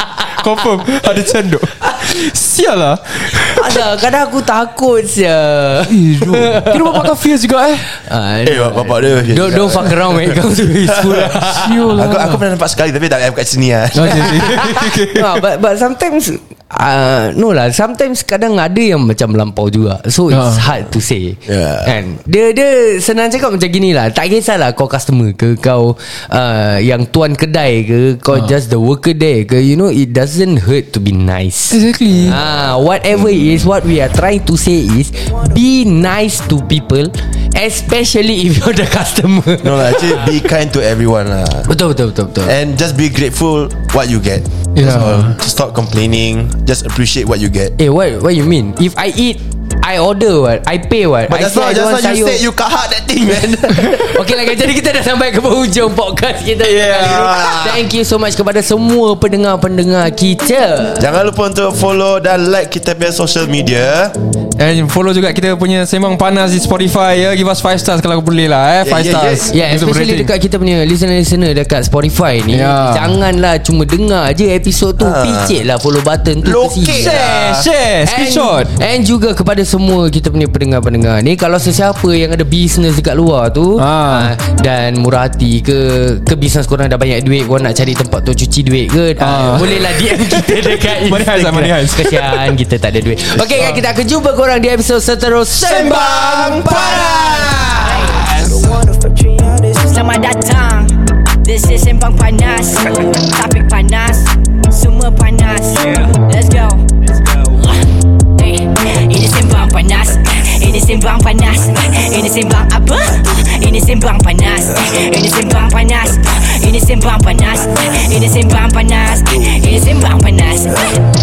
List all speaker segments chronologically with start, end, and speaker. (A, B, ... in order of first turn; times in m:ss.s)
0:00.2-0:03.8 A
0:01.8-0:02.2 B
0:03.4-0:07.1 B
0:05.9-0:07.9 A
0:07.9-0:11.9 B
0:08.4-0:14.8 C
0:11.1-0:12.4 A
0:13.9-0:15.4 A
0:14.2-0:40.4 B
0:20.3-0:20.6 A
0:21.5-0:21.9 C
0:31.7-0:32.4 A
0:39.6-0:41.7 C
0:41.7-0:42.6 B
0:42.4-0:47.7 C
0:44.7-0:45.3 A
0:47.8-0:52.4 B
0:51.3-0:54.0 C
0:53.7-1:01.0 B
0:56.6-0:57.7 A
0:56.9-0:57.8 C
1:01.0-1:04.1 C
1:04.6-1:10.3 A
1:08.8-1:09.5 C
1:09.5-1:38.0 B
1:12.5-1:13.2 A
1:15.0-1:15.6 C
1:16.4-1:17.7 C
1:16.9-1:18.7 A
1:23.8-1:24.3 A
1:29.2-1:32.6 A
1:35.5-1:38.8 C
1:37.8-1:38.3 D
1:39.3-1:46.8 D
1:48.3-2:01.0 D